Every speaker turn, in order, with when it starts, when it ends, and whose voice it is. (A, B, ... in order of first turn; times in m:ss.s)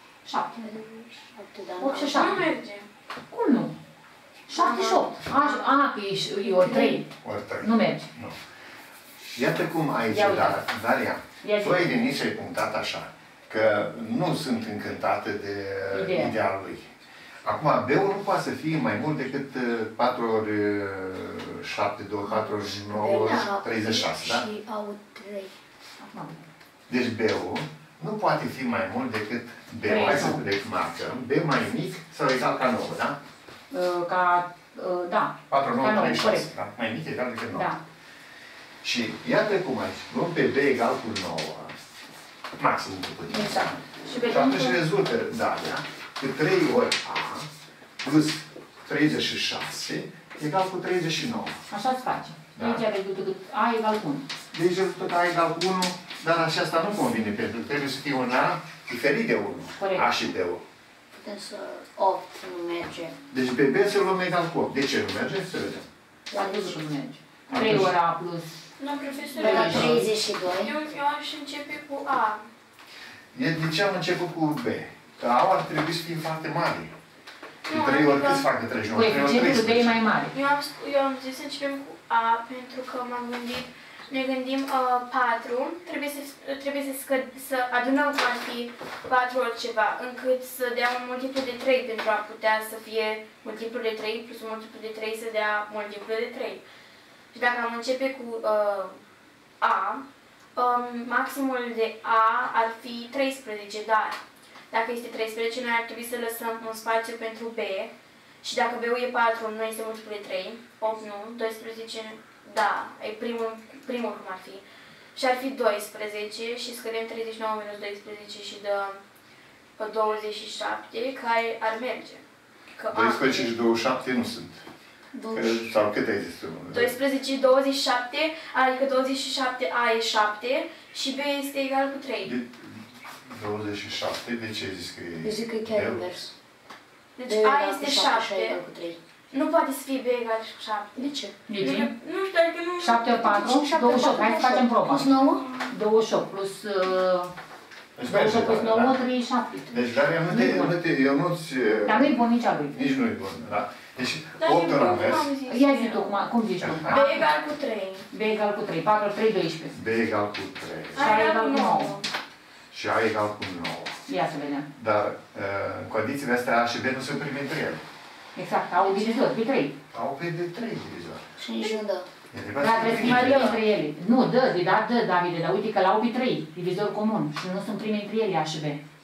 0:00.2-0:00.7 A
0:00.6-0:02.4 B
0:01.8-0:02.5 A
0:02.1-0:02.9 C
0:03.3-0:03.7 A
0:04.5-0:07.1 A
0:04.5-0:05.8 C
0:06.4-0:07.0 B
0:07.2-0:08.4 D
0:07.6-0:08.1 A
0:09.3-0:16.9 D
0:10.1-0:10.6 A
0:11.4-0:11.9 A
0:15.9-0:16.3 A
0:17.4-0:24.5 D
0:22.2-0:25.5 B
0:26.0-0:26.4 A
0:26.9-0:33.2 D
0:29.8-0:30.4 A
0:33.7-0:36.5 A
0:35.5-0:37.7 D
0:37.5-0:37.8 A
0:38.8-0:41.7 D
0:42.6-0:47.5 D
0:43.3-0:44.8 A
0:48.0-0:51.6 D
0:51.7-0:54.3 A
0:52.5-0:52.8 D
0:54.5-1:00.6 D
0:59.8-1:00.1 A
1:01.1-1:03.2 B
1:03.3-1:05.8 D
1:06.3-1:06.8 B
1:06.3-1:08.5 A
1:07.5-1:07.9 D
1:08.8-1:12.4 C
1:09.4-1:10.8 B
1:09.4-1:10.0 A
1:09.4-1:10.0 D
1:13.3-1:16.9 D
1:17.6-1:18.5 C
1:17.7-1:20.0 D
1:18.9-1:20.3 A
1:20.3-1:36.6 C
1:37.3-1:39.0 C
1:39.6-1:40.0 C
1:40.6-1:44.2 C
1:44.7-1:47.9 C
1:48.4-1:59.0 C
1:59.8-2:02.2 C
2:02.8-2:03.5 C
2:02.9-2:04.6 D
2:05.1-2:05.7 B
2:05.3-2:07.0 D
2:06.7-2:12.3 C
2:12.2-2:16.0 D
2:15.2-2:16.3 B
2:17.2-2:18.6 C
2:17.2-2:19.0 B
2:19.3-2:23.8 C
2:21.0-2:21.4 B
2:21.5-2:21.9 A
2:22.8-2:27.3 A
2:23.5-2:25.4 B
2:25.4-2:25.7 C
2:28.0-2:29.0 D
2:28.0-2:30.7 A
2:29.7-2:35.3 D
2:31.8-2:32.7 A
2:34.4-2:36.1 C
2:35.5-2:37.2 A
2:36.6-2:37.0 D
2:36.9-2:38.1 C
2:38.1-2:39.8 A
2:39.7-2:41.3 D
2:40.9-2:42.1 C
2:41.0-2:42.0 A
2:42.7-2:44.0 D
2:44.1-2:44.7 A
2:44.7-2:47.8 D
2:48.3-2:49.7 A
2:48.8-2:49.2 C
2:49.9-2:51.2 D
2:51.4-2:52.1 B
2:52.3-2:53.6 D
2:52.6-2:58.8 A
2:52.9-2:53.6 C